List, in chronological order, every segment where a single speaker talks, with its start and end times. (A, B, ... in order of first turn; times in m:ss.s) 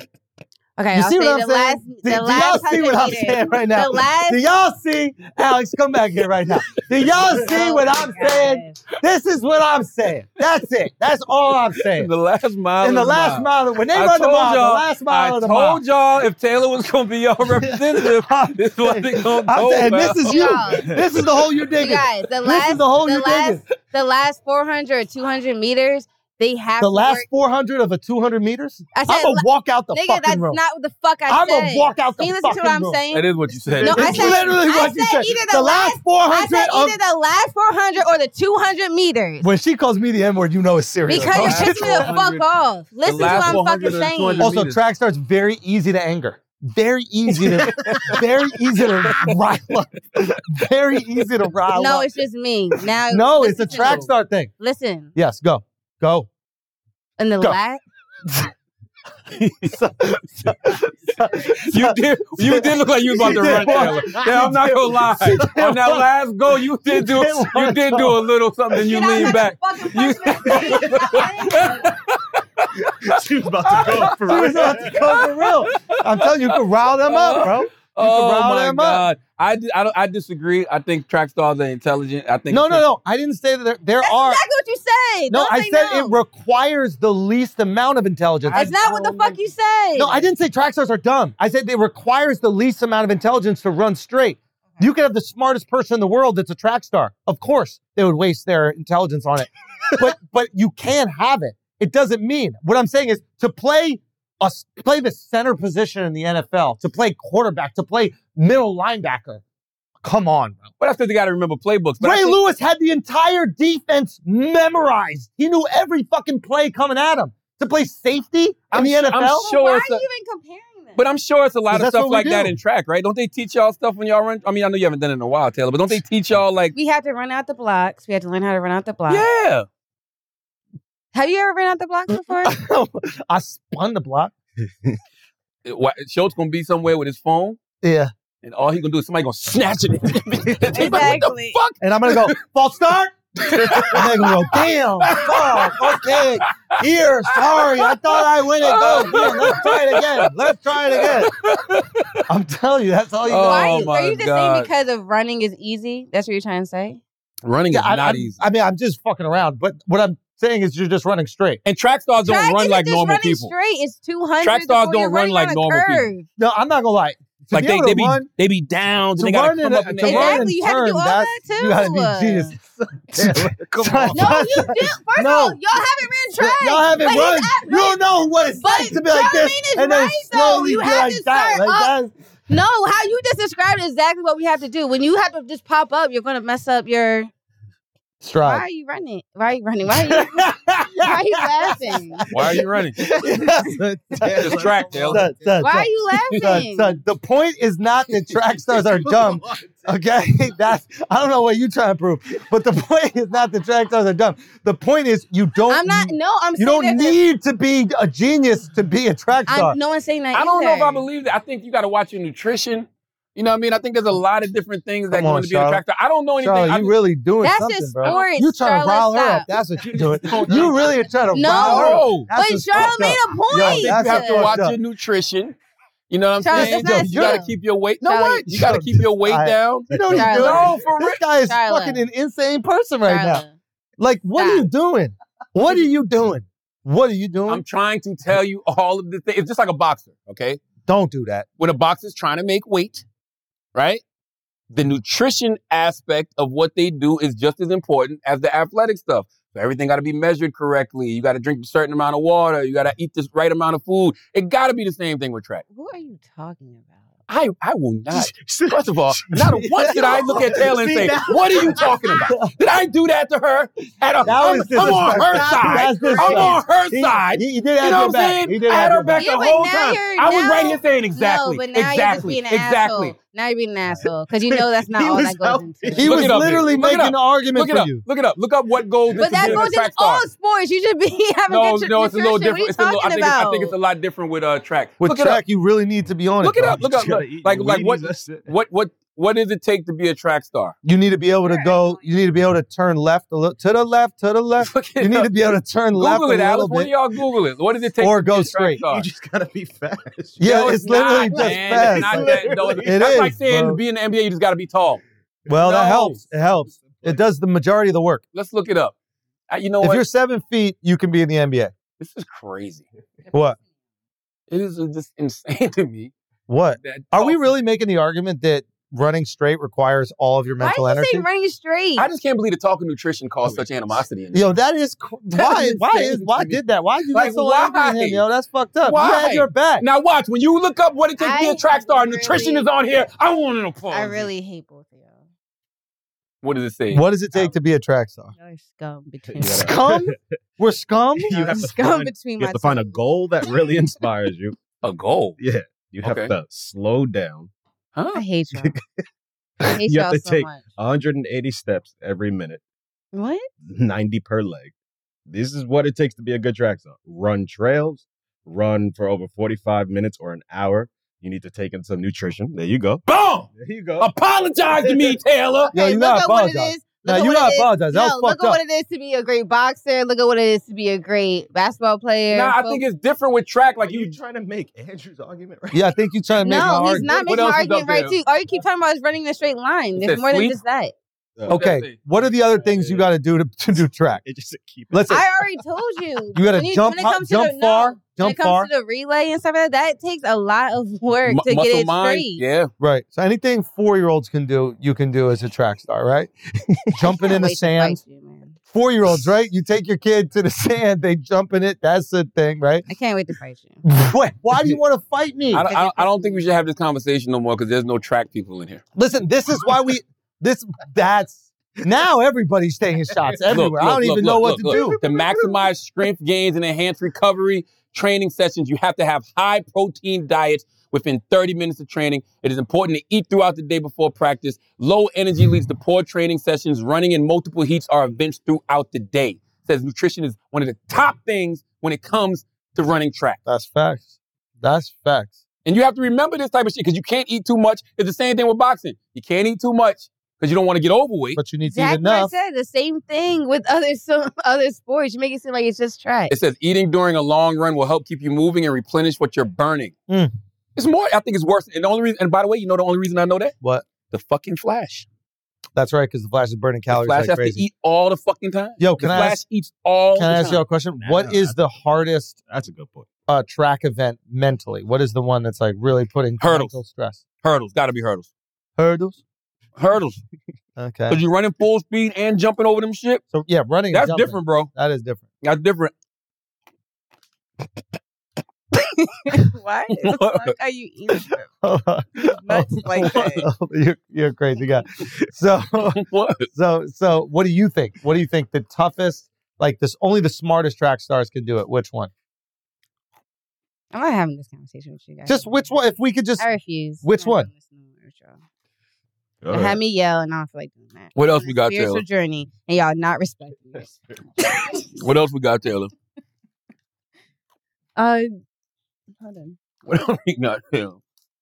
0:00.8-0:04.4 A
0:00.9-0:12.1 B
0:07.4-0:08.8 A
0:11.8-0:20.5 C
0:12.8-0:15.8 B
0:17.6-0:23.6 B
0:20.2-0:20.9 A
0:20.8-0:21.2 D
0:21.8-0:27.2 A
0:26.8-0:30.6 B
0:28.9-0:33.3 A
0:31.3-0:33.0 B
0:33.1-0:34.5 C
0:33.7-0:34.3 D
0:33.8-0:39.4 A
0:33.8-0:37.0 B
0:39.4-0:42.0 B
0:41.1-0:44.5 A
0:41.3-0:42.4 C
0:43.0-0:44.8 C
0:44.4-0:52.1 B
0:47.6-0:48.1 D
0:49.1-0:49.3 C
0:51.7-0:55.1 A
0:53.1-0:54.5 B
0:53.7-0:54.0 C
0:55.1-0:56.3 B
0:57.2-0:57.8 A
0:59.3-0:59.8 C
0:59.7-1:06.0 B
1:01.3-1:13.1 C
1:03.2-1:04.6 D
1:06.9-1:08.3 B
1:08.8-1:11.9 A
1:13.0-1:15.1 D
1:13.7-1:22.8 C
1:14.2-1:19.1 B
1:22.5-1:24.4 B
1:24.0-1:26.2 A
1:25.3-1:28.7 B
1:28.4-1:29.4 C
1:28.5-1:30.2 A
1:30.0-1:49.4 B
1:50.0-1:50.7 B
1:50.8-1:52.4 C
1:52.0-1:59.5 B
1:58.7-2:00.0 C
1:59.4-2:01.0 A
2:01.0-2:06.7 C
2:01.7-2:02.5 B
2:06.7-2:09.3 A
2:09.1-2:09.6 C
2:11.1-2:12.6 A
2:12.4-2:14.3 B
2:15.6-2:17.6 C
2:17.8-2:18.1 B
2:18.4-2:22.4 C
2:20.7-2:21.6 A
2:21.8-2:23.2 B
2:23.4-2:26.8 C
2:23.7-2:31.3 B
2:27.3-2:30.3 C
2:30.9-2:32.2 C
2:32.3-2:33.8 B
2:33.3-2:34.7 C
2:33.4-2:37.0 A
2:37.4-2:38.4 C
2:37.7-2:41.6 B
2:41.6-2:43.5 C
2:42.2-2:46.3 A
2:44.4-2:46.0 C
2:46.4-2:48.3 B
2:47.5-2:50.5 C
2:49.2-2:55.6 B
2:50.0-2:52.5 A
2:53.1-2:54.7 D
2:54.1-3:01.9 A
2:56.4-3:02.1 B
3:02.5-3:07.3 A
3:08.2-3:08.6 B
3:08.4-3:10.4 A
3:09.9-3:12.2 B
3:11.0-3:12.2 A
3:12.3-3:13.0 C
3:13.0-3:15.6 D
3:13.0-3:29.8 B
3:14.4-3:15.3 C
3:15.6-3:17.0 A
3:18.7-3:19.9 D
3:25.7-3:27.2 A
3:29.5-3:31.0 A
3:30.3-3:37.0 C
3:35.1-3:35.8 B
3:36.4-3:44.8 B
3:37.4-3:39.5 A
3:40.3-3:40.7 D
3:41.3-3:44.6 A
3:41.4-3:42.3 C
3:43.5-3:45.5 C
3:46.1-3:51.2 C
3:46.4-3:48.5 A
3:46.5-3:47.4 B
3:48.5-3:53.4 B
3:49.9-3:50.7 D
3:50.1-3:50.7 A
3:51.3-3:52.0 A
3:53.0-3:53.5 A
3:54.0-3:57.6 B
3:54.4-3:54.7 A
3:57.5-4:00.6 C
4:00.9-4:01.5 B
4:01.6-4:03.0 C
4:03.7-4:04.0 C
4:04.7-4:15.6 C
4:15.7-4:16.9 A
4:17.3-4:33.1 C
4:18.1-4:22.0 D
4:24.2-4:29.2 B
4:24.3-4:26.6 D
4:24.4-4:26.1 A
4:29.1-4:36.2 A
4:33.9-4:36.8 D
4:35.9-4:38.0 B
4:36.0-4:40.2 C
4:39.2-4:39.7 D
4:39.2-4:43.7 A
4:41.5-4:45.4 C
4:45.0-4:46.8 B
4:46.4-4:50.7 C
4:46.6-4:48.5 D
4:50.8-4:56.9 B
4:51.4-4:52.0 A
4:54.6-4:55.3 C
4:55.9-4:59.0 C
4:58.0-4:58.8 B
4:58.9-5:03.0 D
5:00.4-5:03.8 B
5:00.4-5:05.0 C
5:05.5-5:08.2 B
5:05.5-5:06.2 C
5:06.7-5:07.2 D
5:08.3-5:08.9 C
5:09.5-5:10.0 C
5:09.8-5:11.7 B
5:12.0-5:12.8 C
5:13.3-5:13.6 B
5:14.5-5:16.1 C
5:16.5-5:21.3 B
5:16.8-5:17.4 C
5:20.6-5:22.1 A
5:22.0-5:24.4 C
5:24.3-5:29.8 B
5:25.3-5:26.6 C
5:27.1-5:28.2 C
5:28.8-5:34.2 C
5:31.2-5:32.6 A
5:33.9-5:35.2 A
5:36.4-5:37.0 C
5:36.9-5:38.3 B
5:38.4-5:39.7 A
5:39.3-5:40.2 D
5:39.4-5:41.5 B
5:41.2-5:44.6 D
5:41.3-5:44.0 A
5:44.8-5:45.4 C
5:45.4-5:47.5 D
5:46.0-5:46.3 C
5:47.9-5:48.2 C
5:48.1-5:48.7 A
5:49.6-5:50.7 A
5:49.8-5:52.6 D
5:53.1-5:53.5 A
5:53.7-5:54.7 D
5:55.3-6:03.0 D
6:03.0-6:05.7 C
6:03.6-6:04.1 D
6:04.8-6:05.2 D
6:05.7-6:12.8 A
6:05.7-6:08.6 B
6:12.3-6:14.1 C
6:13.8-6:16.9 D
6:15.7-6:17.3 B
6:16.4-6:20.9 A
6:17.2-6:18.2 C
6:20.0-6:20.6 C
6:21.4-6:21.7 D
6:21.5-6:22.0 C
6:21.5-6:24.2 B
6:22.6-6:23.0 D
6:24.2-6:25.2 D
6:24.9-6:25.2 B
6:25.1-6:32.4 A
6:26.3-6:28.7 B
6:31.3-6:32.7 C
6:32.8-6:36.3 B
6:36.9-6:38.0 B
6:37.1-6:38.6 A
6:38.7-6:42.9 B
6:42.9-6:43.8 A
6:43.8-6:45.7 B
6:45.5-6:48.8 C
6:45.6-6:46.4 A
6:48.9-6:55.0 B
6:53.5-7:13.4 C
6:54.7-6:55.5 D
7:13.4-7:15.4 B
7:15.6-7:21.4 C
7:21.4-7:22.3 B
7:21.6-7:26.3 A
7:26.3-7:29.9 C
7:30.8-7:33.5 C
7:34.1-7:35.0 C
7:35.7-7:37.6 B
7:36.9-7:40.6 C
7:38.8-7:39.4 B
7:40.1-7:42.4 B
7:41.0-7:41.8 D
7:42.4-7:43.1 D
7:43.3-7:47.2 B
7:46.4-7:46.7 C
7:47.4-7:48.3 C
7:48.8-7:49.2 B
7:49.8-7:50.2 C
7:50.8-7:51.2 B
7:51.1-7:53.2 C
7:53.3-7:55.2 B
7:53.9-7:54.7 C
7:55.4-7:55.9 C
7:58.8-8:01.5 A
7:59.9-8:00.5 C
8:01.6-8:06.0 B
8:02.3-8:03.4 A
8:03.0-8:03.4 C
8:05.9-8:06.5 C
8:06.5-8:12.1 B
8:13.9-8:15.7 A
8:15.2-8:16.5 B
8:16.4-8:18.4 A
8:17.0-8:17.5 B
8:19.4-8:19.8 D
8:19.5-8:23.9 A
8:21.1-8:22.0 C
8:24.4-8:24.9 A
8:25.0-8:25.9 C
8:28.0-8:28.3 A
8:29.2-8:29.6 A
8:29.8-8:31.0 C